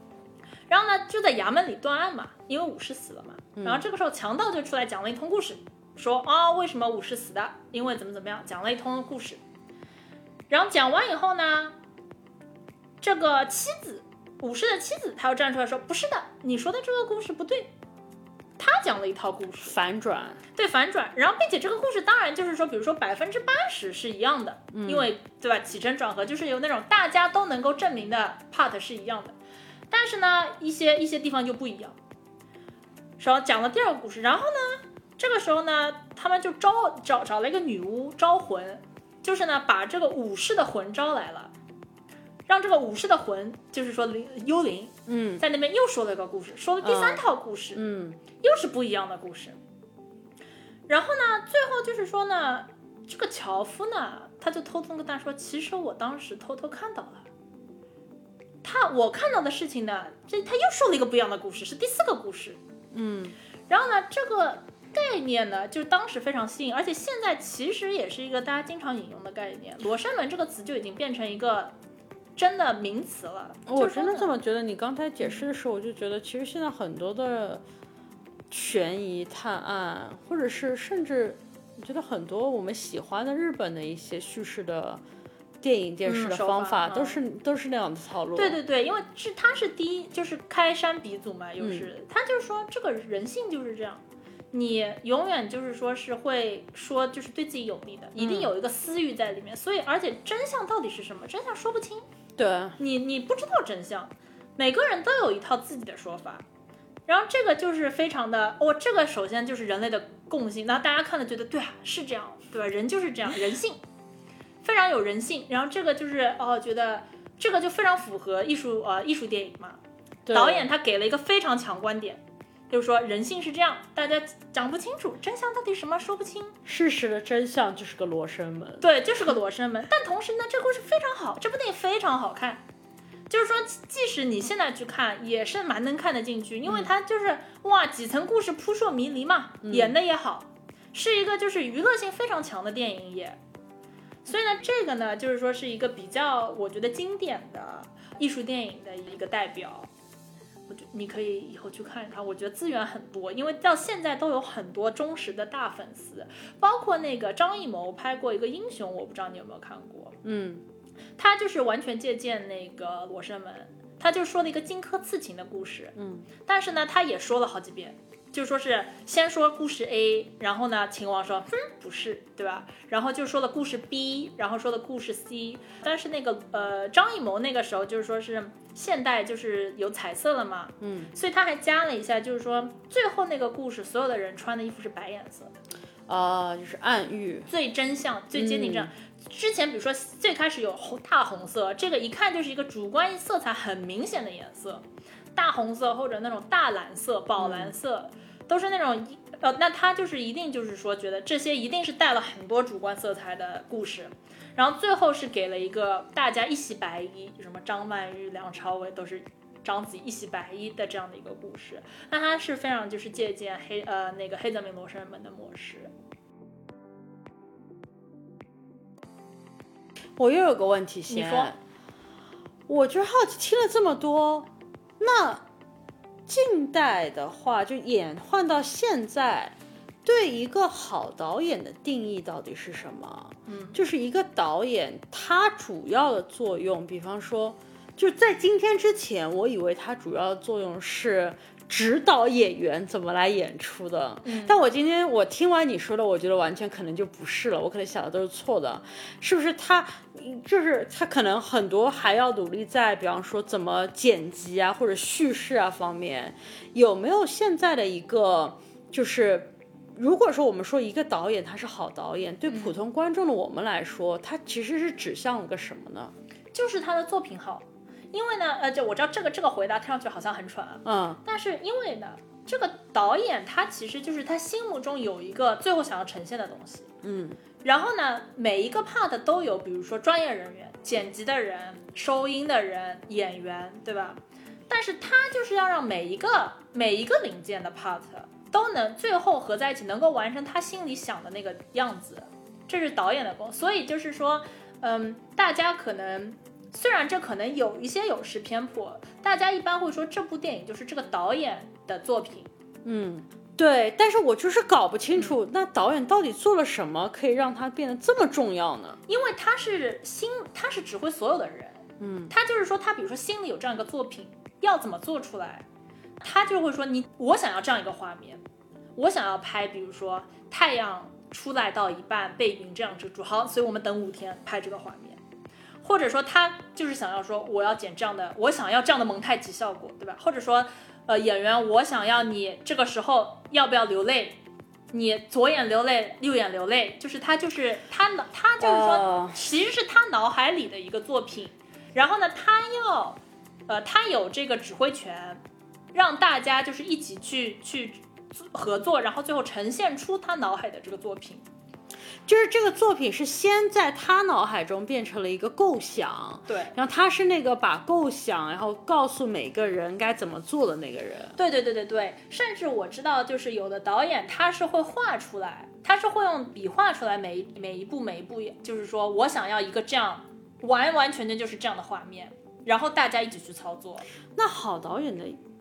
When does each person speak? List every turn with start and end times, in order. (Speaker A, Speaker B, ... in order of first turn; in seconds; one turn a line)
Speaker A: 0.7-9.4
Speaker B: 3.5-3.8
Speaker A: 10.5-11.8
Speaker A: 13.0-17.7
Speaker A: 18.6-19.8
Speaker B: 19.6-20.4
Speaker A: 20.5-29.4
Speaker B: 24.7-25.1
Speaker A: 29.9-31.9
Speaker A: 33.2-41.5
Speaker A: 42.5-47.8
Speaker B: 45.1-45.4
Speaker B: 46.8-48.2
Speaker A: 48.4-49.6
Speaker A: 50.9-57.3
Speaker A: 58.6-62.6
Speaker B: 62.9-63.4
Speaker A: 63.7-71.7
Speaker A: 72.3-74.3
Speaker B: 73.7-77.6
Speaker B: 78.5-85.0
Speaker B: 85.6-88.6
Speaker A: 86.0-87.2
Speaker A: 88.3-102.0
Speaker B: 91.6-91.9
Speaker B: 98.2-98.5
Speaker B: 102.4-102.8
Speaker A: 102.8-106.4
Speaker A: 107.1-113.8
Speaker A: 114.6-119.8
Speaker B: 120.2-120.7
Speaker A: 120.3-126.5
Speaker B: 126.6-128.8
Speaker A: 128.8-132.6
Speaker A: 133.3-143.4
Speaker B: 139.6-139.9
Speaker A: 144.2-149.9
Speaker A: 150.7-160.2
Speaker B: 160.2-160.6
Speaker A: 161.2-185.5
Speaker B: 165.9-166.3
Speaker B: 180.8-181.1
Speaker B: 186.1-187.5
Speaker A: 187.5-194.8
Speaker B: 188.3-188.9
Speaker A: 195.3-215.9
Speaker B: 197.4-197.7
Speaker B: 220.2-221.6
Speaker A: 221.1-221.5
Speaker B: 222.7-225.4
Speaker B: 226.3-266.1
Speaker A: 233.5-233.8
Speaker A: 244.2-244.6
Speaker A: 262.5-262.7
Speaker A: 266.5-276.9
Speaker B: 270.8-271.2
Speaker B: 277.0-277.4
Speaker A: 277.6-302.5
Speaker B: 302.8-309.0
Speaker A: 309.1-315.6
Speaker B: 312.0-312.3
Speaker A: 316.2-318.4
Speaker A: 318.9-325.2
Speaker A: 325.8-334.4
Speaker A: 334.9-345.4
Speaker B: 338.6-339.4
Speaker A: 345.9-351.4
Speaker B: 352.2-361.4
Speaker A: 356.5-356.7
Speaker A: 361.4-374.0
Speaker B: 374.4-375.4